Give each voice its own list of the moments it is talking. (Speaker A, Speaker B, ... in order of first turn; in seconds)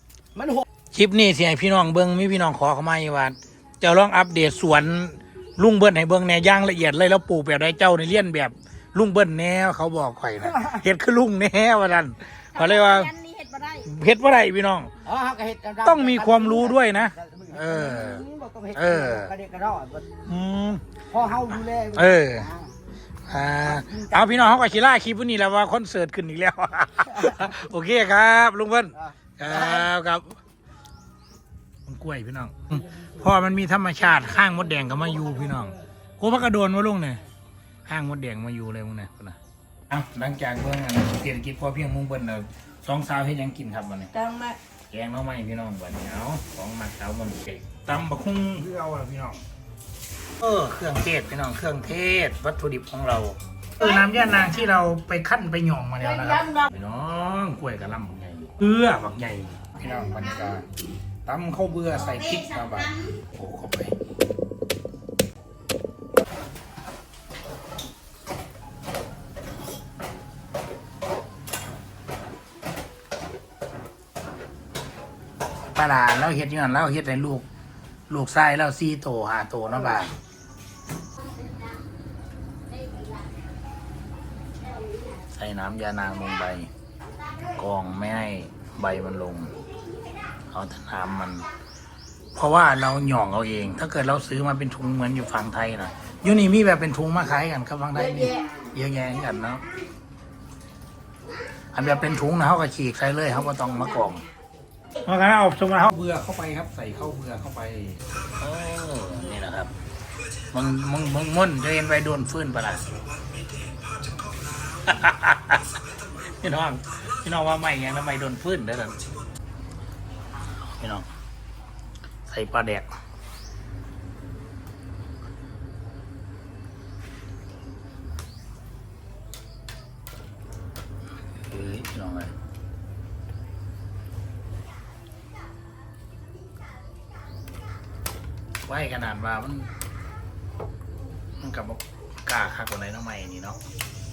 Speaker A: 0.3-0.6, 10.4-10.8, 15.0-20.1, 21.1-22.7, 23.6-24.7, 28.9-29.9
Speaker B: 0.9-13.1, 13.8-14.9, 15.8-19.3, 20.2-20.8, 21.9-22.5, 23.3-30.4, 31.9-37.2, 37.9-39.4, 39.9-44.1, 44.9-49.4, 50.4-60.6, 61.2-63.9, 75.7-77.5, 78.1-80.1, 85.3-86.7, 87.5-89.5, 90.5-91.5, 92.3-99.6, 101.7-104.2, 105.0-109.7, 110.5-112.8, 114.8-115.7, 116.4-119.0, 120.8-121.0, 122.3-122.9, 131.5-132.3, 138.7-139.7, 141.4-143.6
Speaker C: 12.6-13.8, 44.1-44.6, 56.2-56.6, 82.7-83.2, 84.7-85.1, 98.2-98.5